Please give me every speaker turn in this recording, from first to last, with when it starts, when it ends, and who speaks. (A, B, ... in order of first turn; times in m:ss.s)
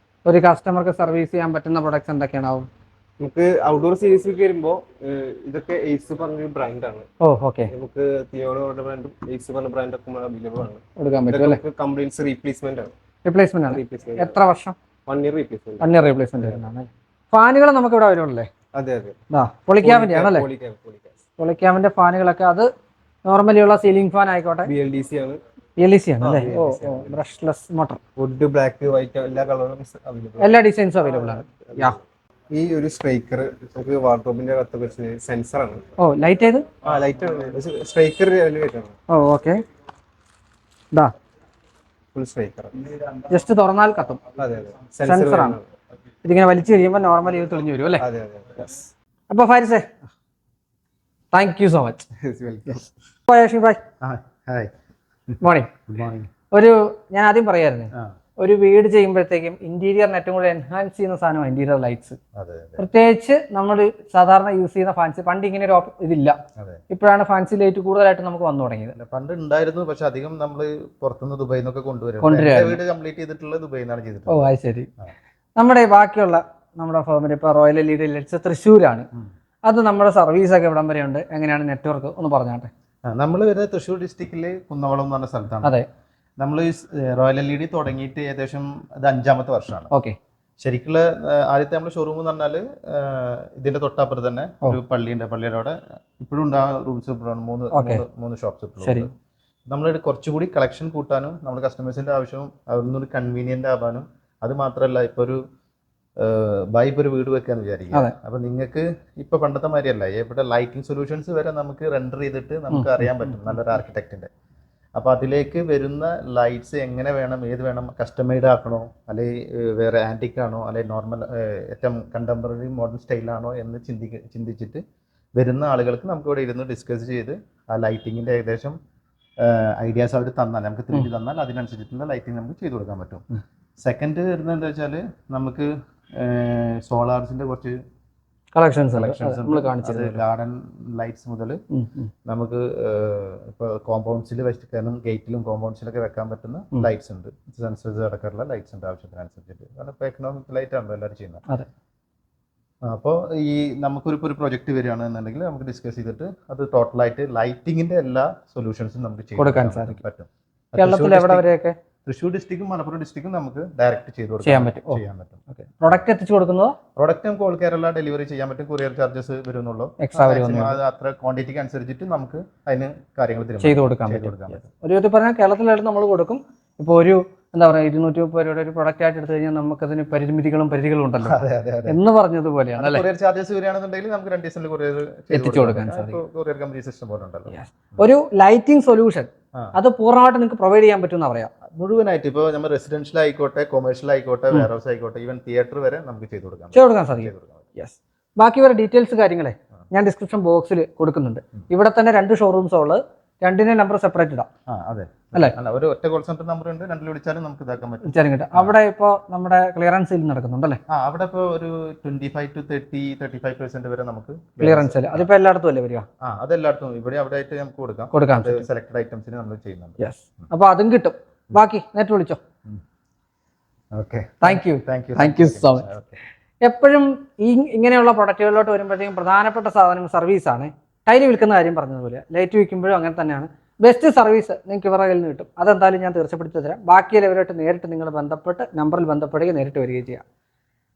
0:00.3-0:02.7 A
0:03.2-0:07.1 B
0:07.2-0:07.7 A
0:07.7-0:12.9 B
0:11.0-0:11.6 A
0:13.2-0:14.7 A
0:13.7-0:14.4 B
0:15.1-0:16.7 B
0:15.8-0:18.5 A
0:18.8-0:19.2 B
0:19.3-0:20.4 A
0:19.8-0:21.2 B
0:21.4-0:22.7 A
0:23.3-0:24.7 A
0:24.6-0:25.4 B
0:25.8-0:28.0 A
0:26.2-0:27.2 B
0:28.2-0:30.6 B
0:30.4-0:32.0 A
0:31.6-0:32.0 B
0:32.5-0:35.8 B
0:36.0-0:36.7 A
0:36.8-0:38.9 B
0:39.1-0:39.6 A
0:42.1-0:42.8 B
0:43.3-0:44.2 A
0:44.4-0:45.7 B
0:45.0-0:45.6 A
0:46.2-0:48.0 A
0:48.0-0:48.9 B
0:49.3-0:49.9 A
0:51.3-0:52.0 A
0:52.2-0:52.9 B
0:53.3-0:53.8 A
0:54.0-0:54.7 C
0:55.4-0:55.7 A
0:55.9-0:56.3 C
0:56.5-1:02.2 A
1:02.3-1:02.8 C
1:02.8-1:06.4 A
1:06.9-1:08.9 A
1:08.9-1:14.5 C
1:12.2-1:12.8 A
1:14.3-1:14.9 A
1:15.6-1:19.1 A
1:19.6-1:22.7 A
1:23.0-1:25.8 C
1:26.4-1:29.9 C
1:29.9-1:30.2 A
1:30.6-1:39.1 C
1:37.7-1:38.0 A
1:38.8-1:39.1 A
1:39.7-1:45.4 C
1:46.2-1:54.3 C
1:52.7-1:53.5 A
1:55.0-2:04.8 C
2:05.4-2:08.8 C
2:09.4-2:13.2 C
2:13.8-2:17.8 C
2:18.5-2:20.2 A
2:18.9-2:21.6 C
2:21.7-2:22.1 A
2:22.2-2:31.4 C
2:32.8-2:41.4 C
2:39.4-2:40.0 A
2:40.8-2:41.7 A
2:42.0-2:45.4 C
2:44.4-2:46.8 A
2:47.0-2:54.6 C
2:50.0-2:50.8 A
2:53.6-3:03.0 A
3:01.2-3:02.0 C
3:02.8-3:08.0 C
3:05.3-3:06.2 A
3:07.5-3:11.5 A
3:11.7-3:17.7 C
3:16.7-3:24.5 A
3:24.7-3:28.8 C
3:28.0-3:30.8 A
3:30.9-3:35.3 C
3:34.6-3:36.0 A
3:36.2-3:40.0 C
3:38.1-3:38.6 A
3:40.0-3:42.4 A
3:43.9-3:46.2 C
3:44.4-3:45.9 A
3:46.6-4:00.2 A